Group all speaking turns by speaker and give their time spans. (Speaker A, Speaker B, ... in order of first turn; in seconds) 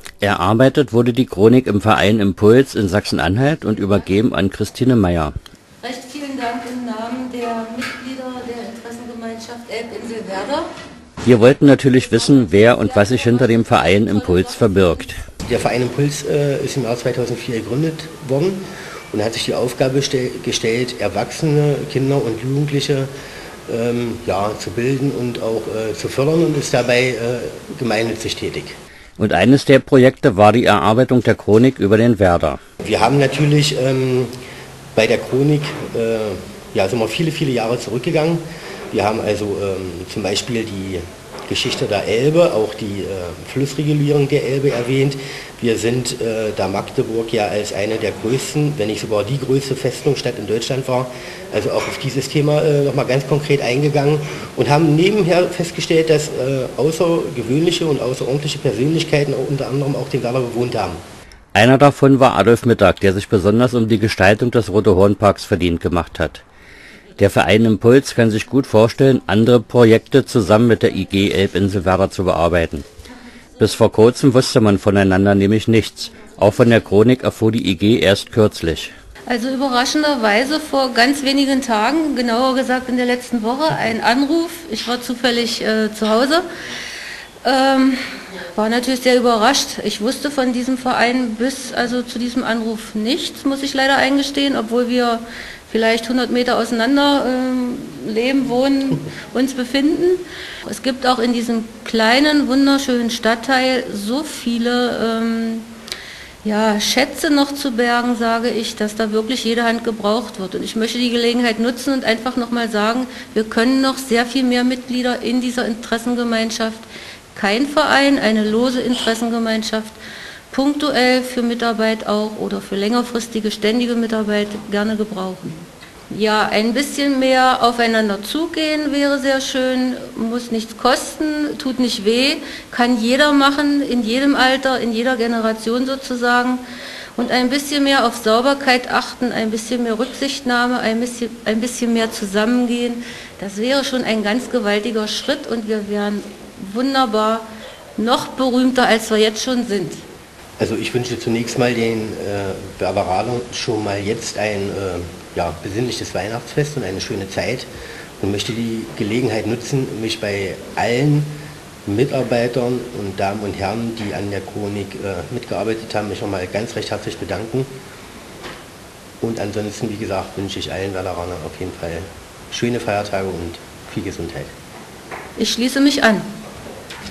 Speaker A: 0.2-5.3, 11.2-15.2, 29.2-32.6, 61.5-66.4, 67.2-72.9, 73.6-78.9
Speaker B: 5.8-10.7, 79.3-86.5, 87.4-88.0, 88.5-105.7, 106.4-120.0, 120.5-136.6, 137.2-147.5, 148.0-150.0, 175.4-176.3
Speaker C: 15.4-23.1, 23.7-28.8, 32.8-34.3, 35.0-61.0, 150.6-157.7, 158.2-161.3, 161.9-167.7, 169.2-174.5